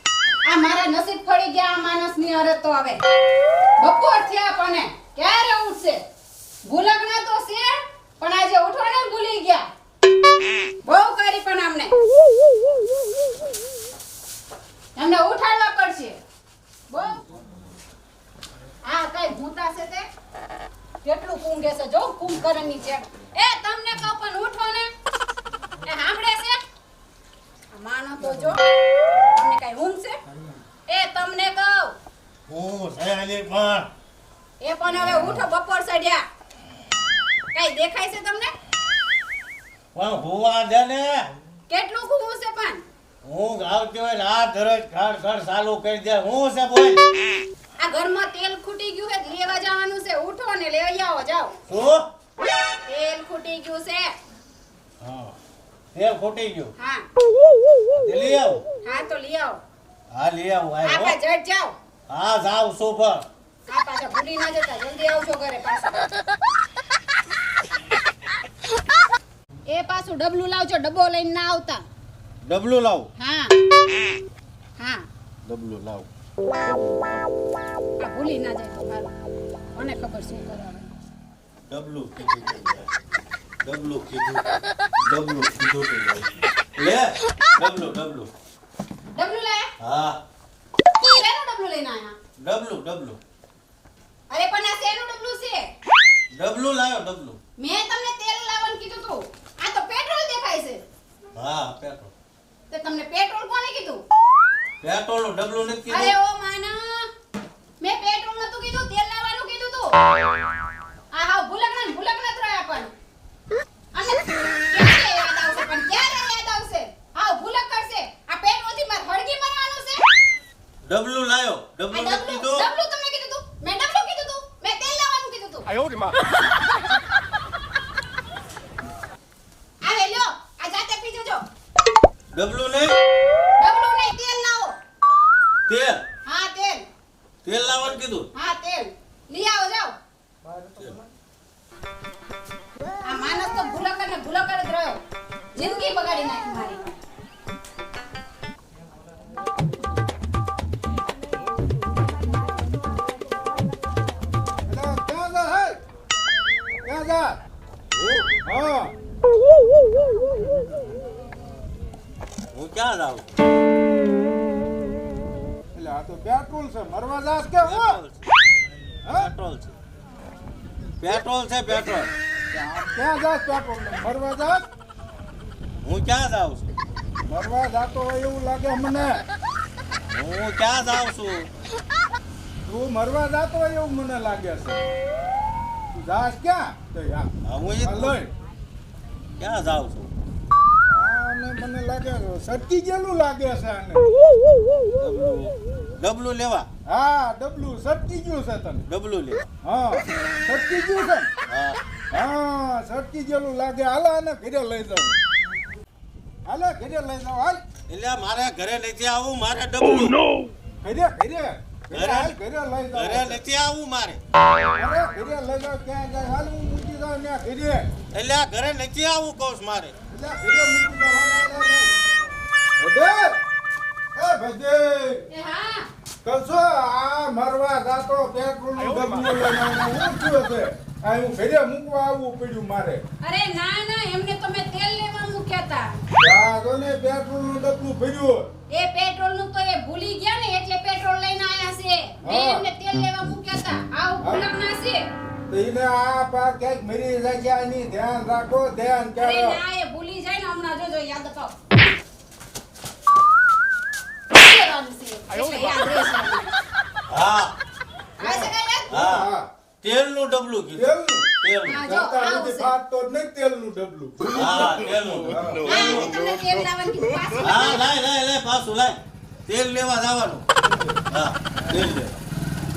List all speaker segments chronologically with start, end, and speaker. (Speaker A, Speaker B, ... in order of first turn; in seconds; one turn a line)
Speaker A: 0.5-3.0
Speaker A: 3.8-6.0
Speaker A: 6.7-9.6
Speaker A: 10.8-12.0
Speaker A: 15.0-16.2
Speaker A: 16.9-17.2
Speaker A: 18.9-20.1
Speaker A: 21.0-24.9
Speaker A: 25.8-26.6
Speaker A: 27.7-28.6
Speaker A: 29.3-30.2
Speaker A: 30.9-31.9
Speaker B: 32.5-33.9
Speaker A: 34.6-36.2
Speaker B: 35.0-35.4
Speaker A: 37.5-38.5
Speaker B: 40.0-41.3
Speaker A: 41.7-42.8
Speaker B: 43.2-47.0
Speaker A: 47.8-51.5
Speaker B: 51.7-52.0
Speaker A: 52.9-54.1
Speaker B: 55.0-55.4
Speaker B: 55.9-56.7
Speaker A: 56.8-57.0
Speaker B: 58.0-58.6
Speaker A: 58.8-59.6
Speaker B: 60.1-61.2
Speaker A: 60.8-61.8
Speaker B: 62.1-63.3
Speaker A: 63.7-66.0
Speaker A: 69.7-71.8
Speaker B: 72.4-73.1
Speaker A: 73.2-73.5
Speaker A: 74.8-75.0
Speaker B: 75.5-76.1
Speaker B: 76.7-77.3
Speaker A: 78.0-79.1
Speaker A: 79.8-80.9
Speaker B: 81.7-82.9
Speaker B: 83.6-84.4
Speaker B: 85.0-88.3
Speaker A: 89.1-89.7
Speaker B: 89.8-90.2
Speaker A: 91.0-92.2
Speaker B: 92.4-93.2
Speaker A: 94.3-95.7
Speaker B: 96.3-97.4
Speaker A: 97.6-100.8
Speaker B: 101.4-102.1
Speaker A: 102.7-104.0
Speaker B: 104.8-106.1
Speaker A: 105.9-107.1
Speaker A: 107.8-109.9
Speaker A: 111.1-112.9
Speaker A: 113.9-120.0
Speaker B: 120.9-122.7
Speaker A: 121.9-125.7
Speaker A: 129.8-131.4
Speaker B: 132.3-133.0
Speaker A: 133.6-134.7
Speaker B: 135.7-136.0
Speaker A: 136.2-136.8
Speaker B: 137.4-138.3
Speaker A: 138.3-139.9
Speaker B: 140.8-141.0
Speaker A: 143.1-145.0
Speaker A: 145.6-146.9
Speaker C: 154.7-155.8
Speaker C: 156.8-157.4
Speaker B: 157.9-158.3
Speaker C: 158.4-158.9
Speaker B: 162.5-163.3
Speaker C: 165.8-168.0
Speaker B: 167.6-168.2
Speaker C: 169.1-169.3
Speaker B: 169.1-169.8
Speaker B: 171.0-172.1
Speaker C: 172.5-174.6
Speaker B: 175.8-176.7
Speaker C: 177.3-179.2
Speaker B: 180.1-181.5
Speaker C: 182.7-184.8
Speaker C: 185.9-187.3
Speaker B: 187.4-188.2
Speaker C: 187.8-188.3
Speaker B: 189.4-190.1
Speaker C: 190.9-194.1
Speaker B: 195.0-196.7
Speaker C: 196.9-198.9
Speaker B: 198.9-199.5
Speaker C: 199.6-201.3
Speaker B: 201.5-201.8
Speaker C: 202.1-205.2
Speaker C: 206.5-207.6
Speaker B: 207.9-210.2
Speaker C: 210.8-213.4
Speaker B: 211.9-212.4
Speaker B: 212.9-214.2
Speaker C: 214.8-217.9
Speaker B: 218.1-219.9
Speaker C: 220.1-221.9
Speaker C: 222.8-223.4
Speaker C: 224.2-225.2
Speaker A: 225.3-225.9
Speaker C: 226.2-233.0
Speaker A: 233.2-235.9
Speaker C: 236.2-238.5
Speaker A: 238.7-245.1
Speaker C: 242.2-242.6
Speaker C: 245.5-249.6
Speaker A: 249.2-251.6
Speaker A: 254.3-256.5
Speaker B: 257.1-257.6
Speaker A: 258.2-258.9
Speaker B: 258.2-259.3
Speaker C: 258.9-259.5
Speaker B: 259.8-261.8
Speaker C: 260.8-261.3
Speaker A: 261.6-262.7
Speaker C: 261.9-265.8
Speaker B: 264.3-266.2
Speaker A: 265.6-267.9
Speaker B: 267.4-269.0
Speaker B: 269.5-270.4
Speaker C: 270.6-271.0
Speaker B: 271.1-272.2